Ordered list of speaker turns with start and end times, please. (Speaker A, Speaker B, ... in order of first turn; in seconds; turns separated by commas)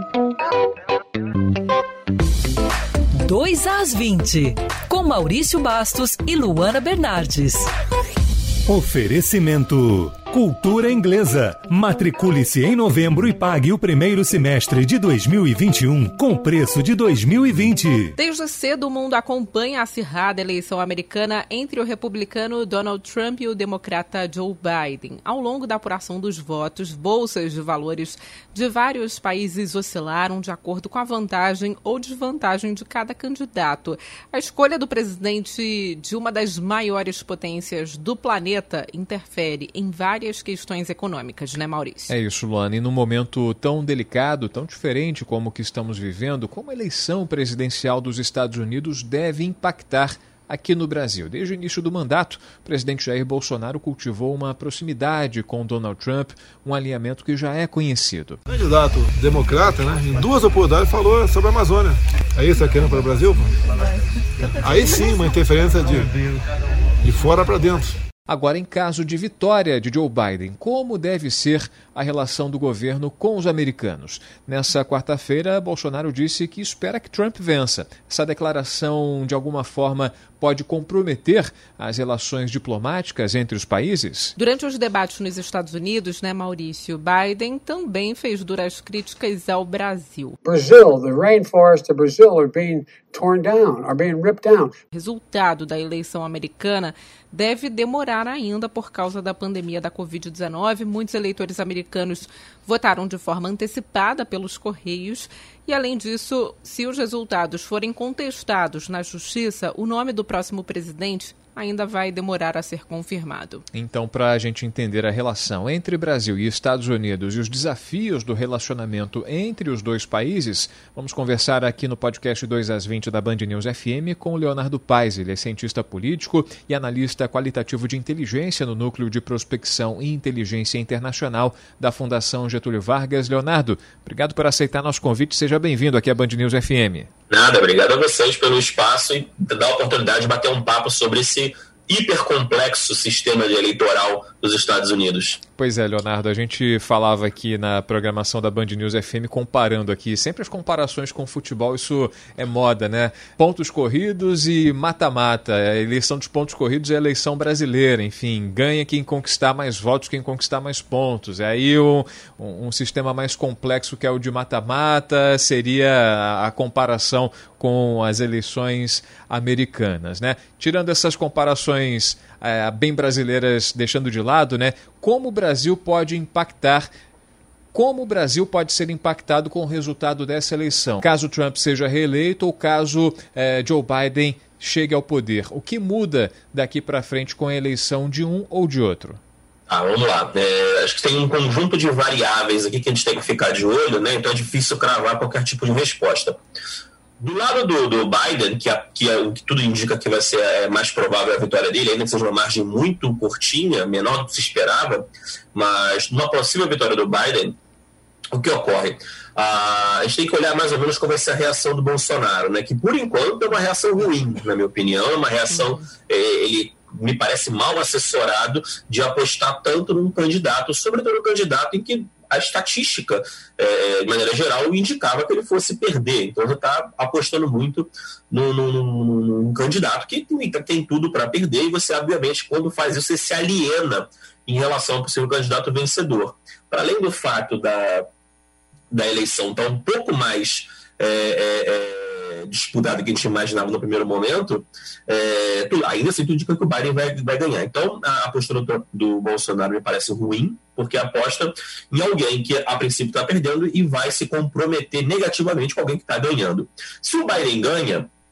Speaker A: 3.2-7.7, Speaker B: 8.7-18.1, Speaker C: 18.2-42.1, Speaker D: 42.1-58.4, Speaker E: 58.5-63.5, Speaker E: 64.6-66.2, Speaker E: 67.0-67.9, Speaker D: 68.3-84.3, Speaker C: 84.4-90.4, Speaker F: 90.4-94.7, Speaker C: 94.9-113.6, Speaker D: 113.7-137.1, Speaker G: 137.3-145.4, Speaker D: 145.6-176.9, Speaker D: 177.7-189.2, Speaker G: 189.7-196.4, Speaker G: 197.2-207.6, Speaker G: 208.3-238.1, Speaker G: 238.9-258.1